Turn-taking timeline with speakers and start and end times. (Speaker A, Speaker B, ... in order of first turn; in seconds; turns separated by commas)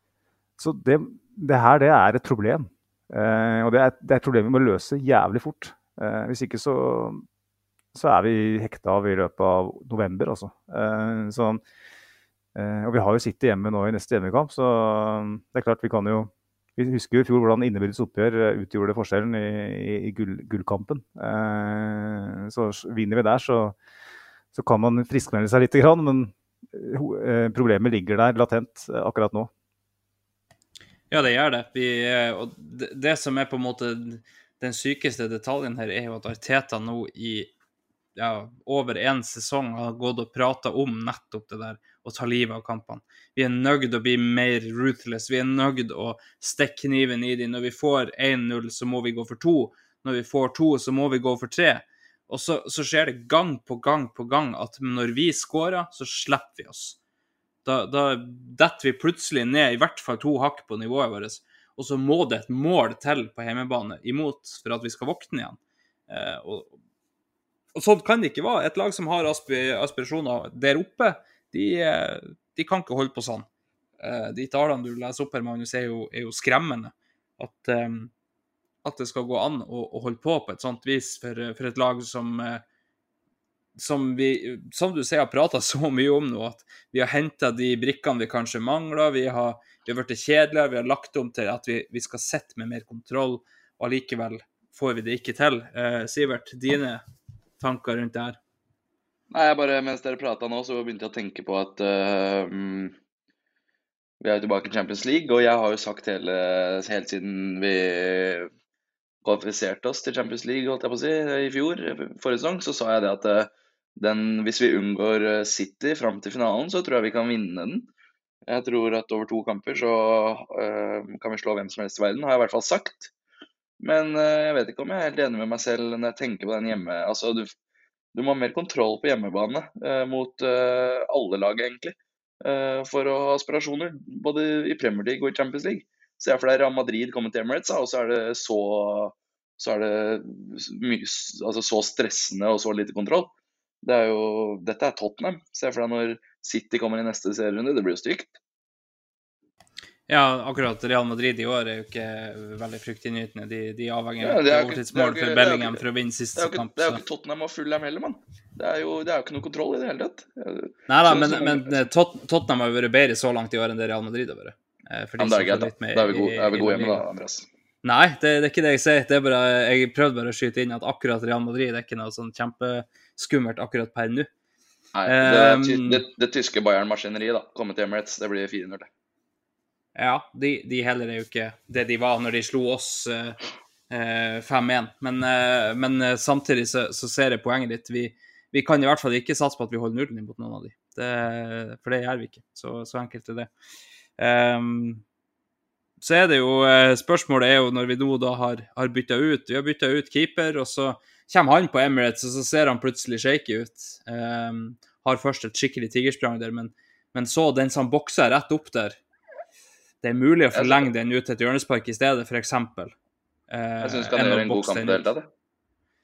Speaker A: 0.6-7.2, Speaker A: 7.9-11.6, Speaker A: 12.6-23.8, Speaker A: 24.5-29.5, Speaker B: 31.1-37.5, Speaker B: 38.2-57.0, Speaker B: 57.6-65.6, Speaker B: 66.1-66.8, Speaker B: 67.8-73.5, Speaker B: 74.0-78.1, Speaker B: 78.8-82.6, Speaker B: 83.8-97.0, Speaker B: 97.6-98.4, Speaker C: 99.3-102.9, Speaker C: 104.2-108.5, Speaker C: 109.2-117.9, Speaker C: 118.5-123.1, Speaker C: 123.8-127.5, Speaker C: 128.1-143.3, Speaker C: 143.8-148.4, Speaker B: 150.1-157.0, Speaker C: 154.2-155.8, Speaker C: 156.4-161.8, Speaker B: 160.9-167.0, Speaker C: 165.2-167.5, Speaker B: 167.8-174.3, Speaker C: 174.9-178.9, Speaker B: 175.1-176.0, Speaker B: 180.0-183.4, Speaker B: 183.9-193.5, Speaker B: 194.2-195.0, Speaker B: 196.0-209.0, Speaker B: 210.0-212.9, Speaker C: 210.5-210.9, Speaker B: 213.5-215.1, Speaker C: 213.8-215.3